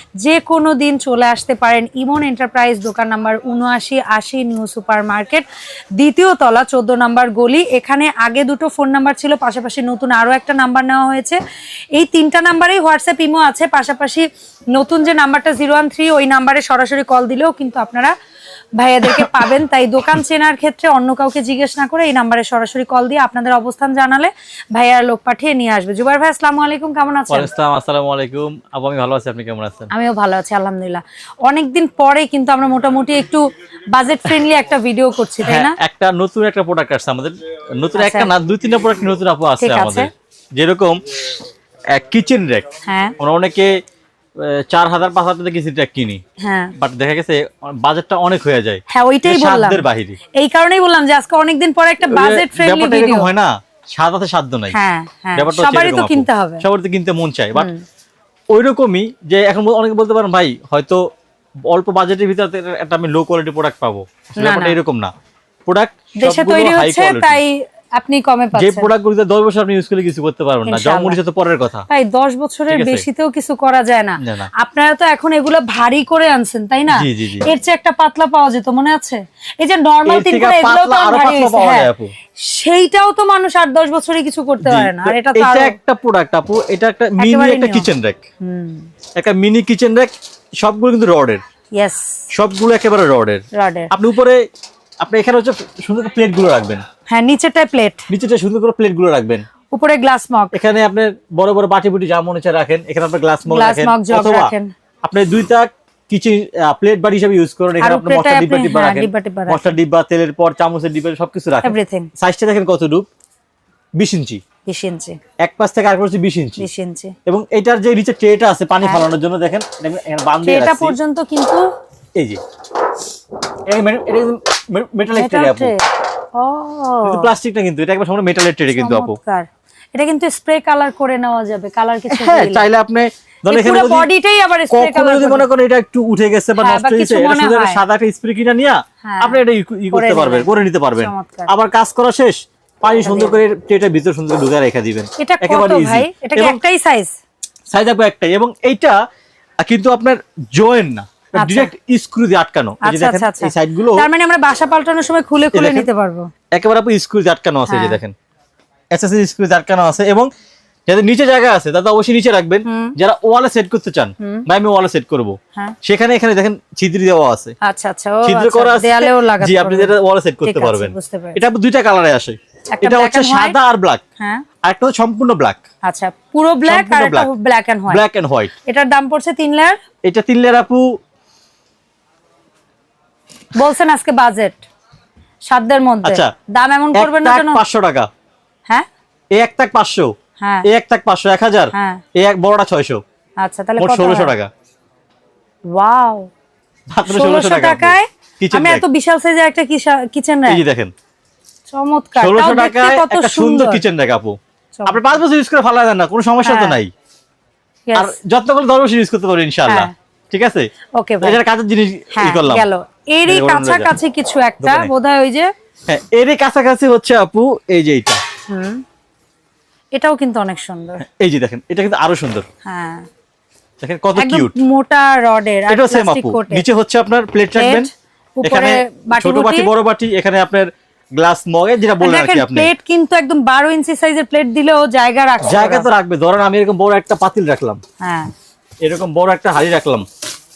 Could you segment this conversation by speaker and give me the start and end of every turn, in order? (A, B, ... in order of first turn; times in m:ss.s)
0:00.2-0:05.4 A
0:06.0-0:11.4 A
0:11.9-0:18.1 A
0:18.8-0:27.5 A
0:27.3-0:29.9 B
0:29.9-0:35.8 A
0:35.4-0:41.4 B
0:38.0-0:38.3 A
0:39.6-0:40.1 A
0:41.9-0:42.6 B
0:42.8-0:43.1 A
0:43.2-0:43.8 B
0:44.4-0:46.2 B
0:46.4-0:46.7 A
0:46.8-0:50.2 B
0:48.9-0:53.3 A
0:52.1-0:54.8 B
0:54.7-0:56.6 A
0:55.3-0:57.7 B
0:57.5-0:57.8 A
0:58.5-1:01.0 B
1:01.7-1:05.1 B
1:04.4-1:04.8 A
1:05.6-1:07.4 B
1:06.2-1:08.9 A
1:08.5-1:11.8 B
1:10.6-1:11.2 A
1:11.9-1:21.9 A
1:12.7-1:13.0 B
1:14.2-1:14.5 B
1:16.9-1:17.5 B
1:20.0-1:22.1 B
1:22.4-1:25.8 A
1:24.6-1:28.2 B
1:27.2-1:27.9 A
1:28.4-1:28.9 A
1:29.2-1:31.4 B
1:31.7-1:32.2 A
1:32.3-1:34.4 B
1:33.5-1:33.9 A
1:35.0-1:36.8 B
1:37.1-1:38.1 A
1:38.1-1:39.4 B
1:39.7-1:40.6 A
1:40.5-1:44.5 B
1:43.4-1:44.7 A
1:45.0-1:53.1 B
1:47.8-1:49.7 A
1:51.6-1:52.1 A
1:54.0-1:54.4 B
1:54.6-1:55.2 A
1:55.4-1:56.6 B
1:56.6-1:57.1 A
1:57.2-2:01.0 B
2:00.4-2:01.6 A
2:02.2-2:02.4 B
2:03.7-2:05.7 B
2:05.1-2:05.8 A
2:06.3-2:07.3 A
2:07.0-2:09.2 B
2:08.7-2:12.7 A
2:12.1-2:14.1 B
2:13.5-2:15.4 A
2:14.7-2:26.6 B
2:16.6-2:17.8 A
2:19.0-2:19.4 A
2:19.9-2:21.5 A
2:23.0-2:23.4 A
2:25.2-2:27.1 A
2:27.7-2:29.0 B
2:29.6-2:34.1 B
2:31.4-2:31.7 A
2:32.8-2:36.3 A
2:35.5-2:35.9 B
2:36.5-2:38.1 B
2:37.7-2:38.0 A
2:38.9-2:40.3 B
2:40.9-2:47.5 B
2:42.6-2:42.9 A
2:44.2-2:44.4 A
2:47.6-2:51.4 A
2:48.2-2:54.0 B
2:52.7-2:53.6 A
2:54.2-2:54.4 A
2:54.6-2:55.6 B
2:55.8-2:58.0 A
2:56.6-2:57.3 B
2:57.9-2:58.5 B
2:58.6-2:59.8 A
3:00.0-3:01.0 B
3:03.5-3:04.6 A
3:05.5-3:07.6 A
3:06.0-3:06.3 B
3:06.9-3:08.1 B
3:09.3-3:10.1 B
3:10.4-3:10.7 A
3:10.6-3:13.0 B
3:11.7-3:12.0 A
3:13.4-3:14.3 A
3:13.8-3:14.5 B
3:15.7-3:16.3 A
3:16.9-3:18.8 B
3:17.0-3:20.6 A
3:20.5-3:20.9 B
3:21.7-3:23.8 A
3:22.2-3:26.9 B
3:24.8-3:25.2 A
3:26.4-3:26.8 A
3:27.9-3:28.1 A
3:27.9-3:30.7 B
3:29.7-3:29.9 A
3:31.0-3:31.4 A
3:31.2-3:32.7 B
3:32.1-3:35.5 A
3:33.2-3:33.9 B
3:34.6-3:34.9 B
3:35.9-3:38.2 B
3:38.5-3:38.8 A
3:39.9-3:41.0 A
3:41.0-3:42.4 B
3:42.6-3:43.0 A
3:43.8-3:44.5 B
3:44.2-3:46.6 A
3:45.7-3:47.9 B
3:47.5-3:49.7 A
3:48.4-3:52.7 B
3:52.0-3:55.9 A
3:55.4-3:57.8 B
3:58.0-3:58.3 A
3:58.8-4:00.0 B